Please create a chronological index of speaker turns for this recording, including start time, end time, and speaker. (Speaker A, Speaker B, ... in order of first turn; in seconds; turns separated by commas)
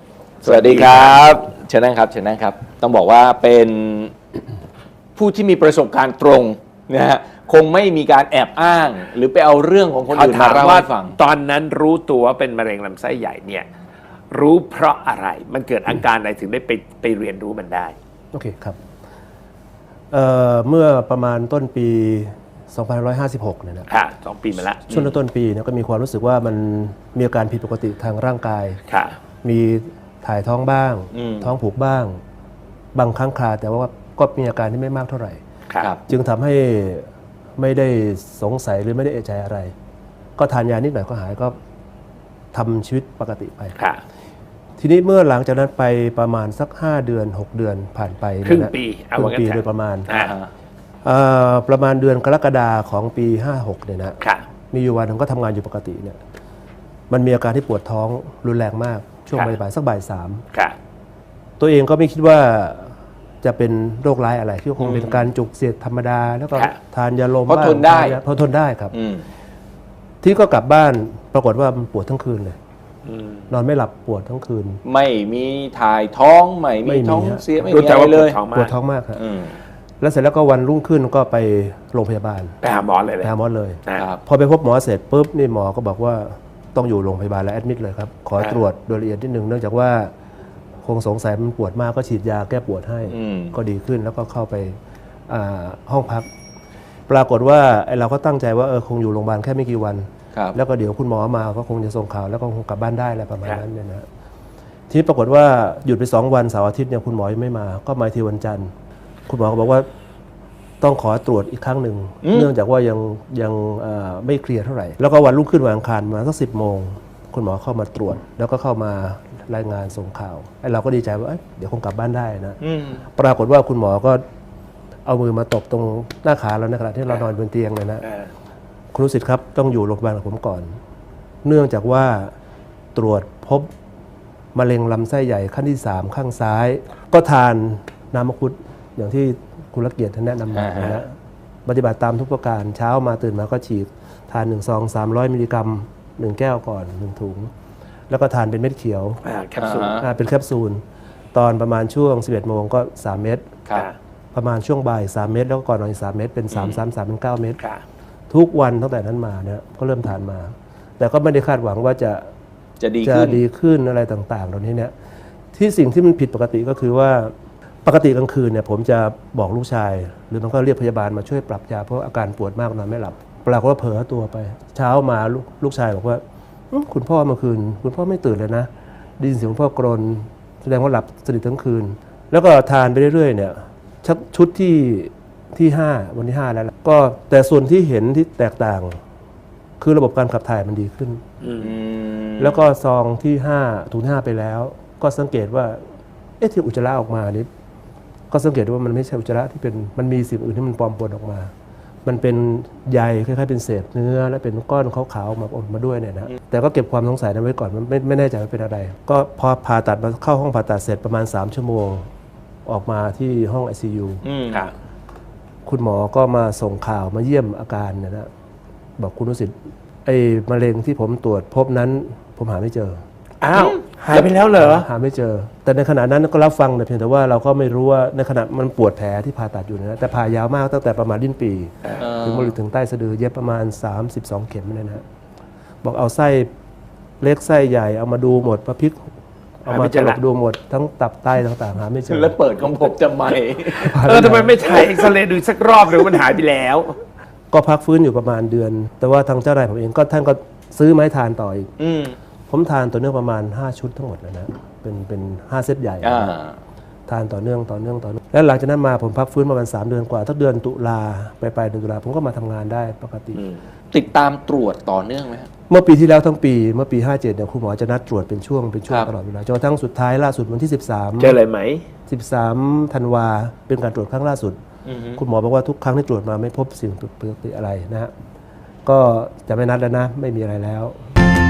Speaker A: 0.4-1.3, Speaker B: 0.4-4.1, Speaker B: 5.2-11.2, Speaker A: 10.1-13.7, Speaker A: 14.3-17.9, Speaker C: 18.3-18.8, Speaker C: 20.1-23.9, Speaker A: 23.9-25.1, Speaker C: 24.9-28.8, Speaker A: 28.9-29.2, Speaker C: 29.4-32.2, Speaker B: 31.1-31.5, Speaker C: 32.9-35.4, Speaker C: 36.1-37.0, Speaker C: 37.6-39.7, Speaker C: 40.4-41.5, Speaker C: 42.5-43.8, Speaker C: 44.8-50.1, Speaker A: 48.4-50.3, Speaker B: 50.1-50.5, Speaker C: 51.0-54.2, Speaker C: 54.7-56.2, Speaker C: 57.1-60.4, Speaker C: 61.6-68.9, Speaker A: 64.8-65.2, Speaker B: 67.5-68.2, Speaker B: 68.9-69.2, Speaker C: 70.2-72.6, Speaker A: 73.0-73.5, Speaker C: 73.5-74.8, Speaker B: 74.8-78.4, Speaker C: 76.8-77.5, Speaker A: 77.6-78.8, Speaker C: 78.5-79.2, Speaker B: 79.2-79.5, Speaker C: 80.0-82.6, Speaker A: 82.6-83.3, Speaker C: 83.2-90.1, Speaker B: 84.0-84.2, Speaker C: 90.8-94.8, Speaker B: 93.1-93.5, Speaker C: 95.3-96.3, Speaker C: 97.1-104.0, Speaker C: 104.9-108.7, Speaker C: 109.3-109.8, Speaker C: 110.8-122.6, Speaker B: 112.2-112.5, Speaker B: 122.6-123.0, Speaker C: 123.1-124.2, Speaker C: 125.0-128.1, Speaker C: 128.9-130.8, Speaker C: 131.4-132.3, Speaker C: 132.9-133.7, Speaker C: 134.5-141.1, Speaker B: 140.5-141.0, Speaker C: 141.7-147.5, Speaker C: 148.1-149.2, Speaker A: 149.2-150.0, Speaker B: 149.6-150.1, Speaker C: 149.8-150.8, Speaker C: 151.3-153.5, Speaker C: 154.3-157.6, Speaker B: 156.5-156.8, Speaker C: 158.3-162.3, Speaker B: 162.8-163.4, Speaker C: 163.0-164.9, Speaker C: 165.5-167.3, Speaker C: 167.8-189.0, Speaker C: 189.8-191.3, Speaker A: 191.4-191.7, Speaker B: 191.6-192.6, Speaker C: 192.4-195.8, Speaker C: 196.4-197.5, Speaker C: 198.3-201.5, Speaker C: 202.0-212.1, Speaker C: 212.7-214.2, Speaker B: 214.2-214.7, Speaker C: 215.7-218.3, Speaker C: 219.0-219.5, Speaker C: 220.0-223.0, Speaker A: 223.4-224.9, Speaker C: 224.1-235.0, Speaker B: 232.0-232.5, Speaker C: 235.8-236.5, Speaker C: 237.2-239.0, Speaker C: 239.6-242.4, Speaker A: 239.7-240.2, Speaker B: 242.1-244.0, Speaker C: 243.7-244.9, Speaker A: 243.8-247.0, Speaker C: 247.5-251.7, Speaker B: 251.8-252.1, Speaker C: 252.5-256.3, Speaker B: 256.0-256.6, Speaker C: 257.1-263.4, Speaker B: 263.9-265.5, Speaker C: 265.7-271.4, Speaker A: 271.2-271.9, Speaker C: 272.1-274.6, Speaker B: 274.9-275.2, Speaker C: 275.1-278.1, Speaker C: 278.8-281.0